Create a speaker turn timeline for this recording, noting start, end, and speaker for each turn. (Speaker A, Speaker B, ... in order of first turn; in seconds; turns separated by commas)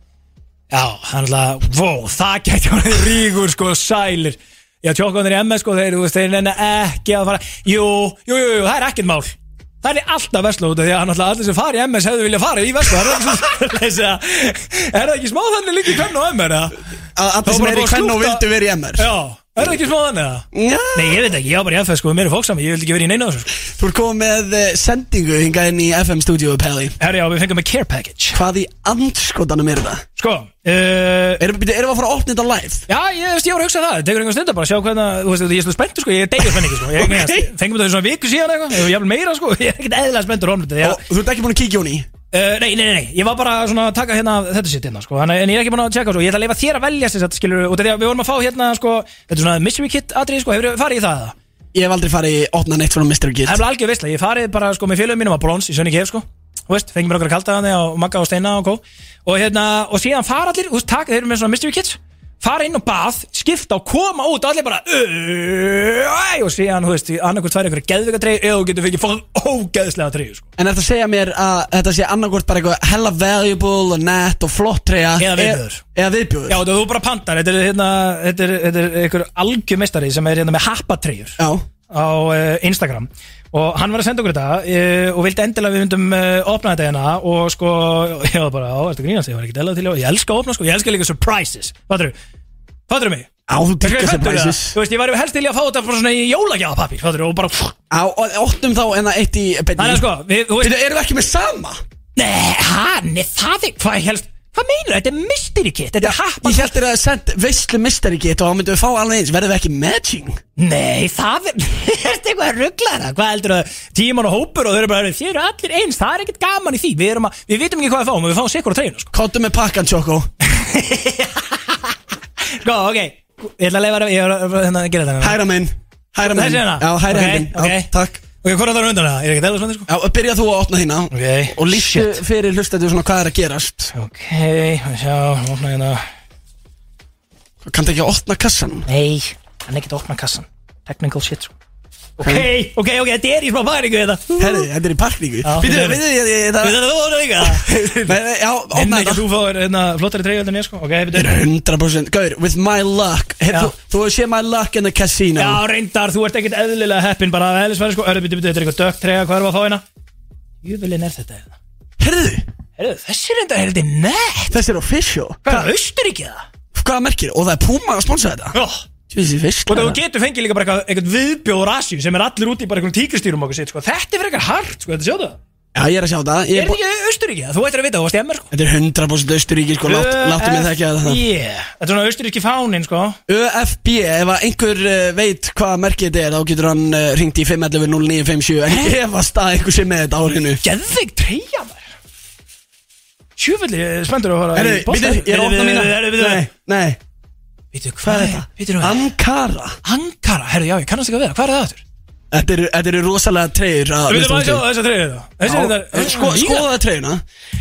Speaker A: 0.7-16.8, Speaker B: 17.2-19.1, Speaker A: 17.5-18.4, Speaker A: 19.0-23.5, Speaker B: 20.5-21.3, Speaker B: 23.8-26.9, Speaker A: 27.0-28.4, Speaker B: 28.3-30.0, Speaker A: 30.2-31.4, Speaker B: 31.4-32.9, Speaker A: 32.9-41.0, Speaker B: 36.9-37.5, Speaker B: 40.8-42.1, Speaker A: 42.3-51.4, Speaker B: 51.7-53.6, Speaker A: 53.5-70.5, Speaker B: 70.6-76.6, Speaker A: 75.2-75.8, Speaker A: 76.5-81.4, Speaker B: 81.4-81.7, Speaker A: 81.9-92.2, Speaker A: 92.9-93.3, Speaker B: 93.5-94.8, Speaker A: 93.8-97.8, Speaker B: 97.9-100.1, Speaker A: 99.8-100.8, Speaker B: 100.6-101.8, Speaker A: 102.2-106.7, Speaker B: 106.0-110.4, Speaker A: 110.6-119.1, Speaker B: 119.1-120.3, Speaker A: 120.5-121.9, Speaker A: 122.6-125.4, Speaker B: 125.2-128.2, Speaker A: 126.3-127.9, Speaker A: 128.4-129.9, Speaker B: 129.9-133.9, Speaker A: 131.1-132.2, Speaker A: 133.9-136.0, Speaker B: 137.6-138.9, Speaker A: 138.9-141.5, Speaker A: 142.2-144.7, Speaker B: 142.2-142.5, Speaker B: 144.4-146.8, Speaker A: 145.4-146.0, Speaker A: 146.6-148.2, Speaker B: 147.4-149.2, Speaker A: 148.7-151.4, Speaker B: 151.1-155.6, Speaker A: 155.4-159.8, Speaker A: 160.6-161.6, Speaker B: 162.0-162.4, Speaker A: 162.8-164.5, Speaker B: 164.5-165.7, Speaker A: 165.4-166.4, Speaker B: 166.7-168.6, Speaker A: 168.5-168.8, Speaker B: 169.1-170.0, Speaker A: 169.7-175.4, Speaker B: 175.8-176.8, Speaker A: 176.5-178.5, Speaker B: 178.5-181.2, Speaker A: 179.9-183.2, Speaker B: 183.3-190.6, Speaker A: 188.7-188.9, Speaker A: 190.6-191.9, Speaker A: 193.4-196.4, Speaker B: 194.6-197.0, Speaker A: 197.7-199.1, Speaker B: 198.0-199.8, Speaker A: 199.8-201.8, Speaker B: 202.3-204.7, Speaker A: 204.1-206.7, Speaker B: 205.4-207.2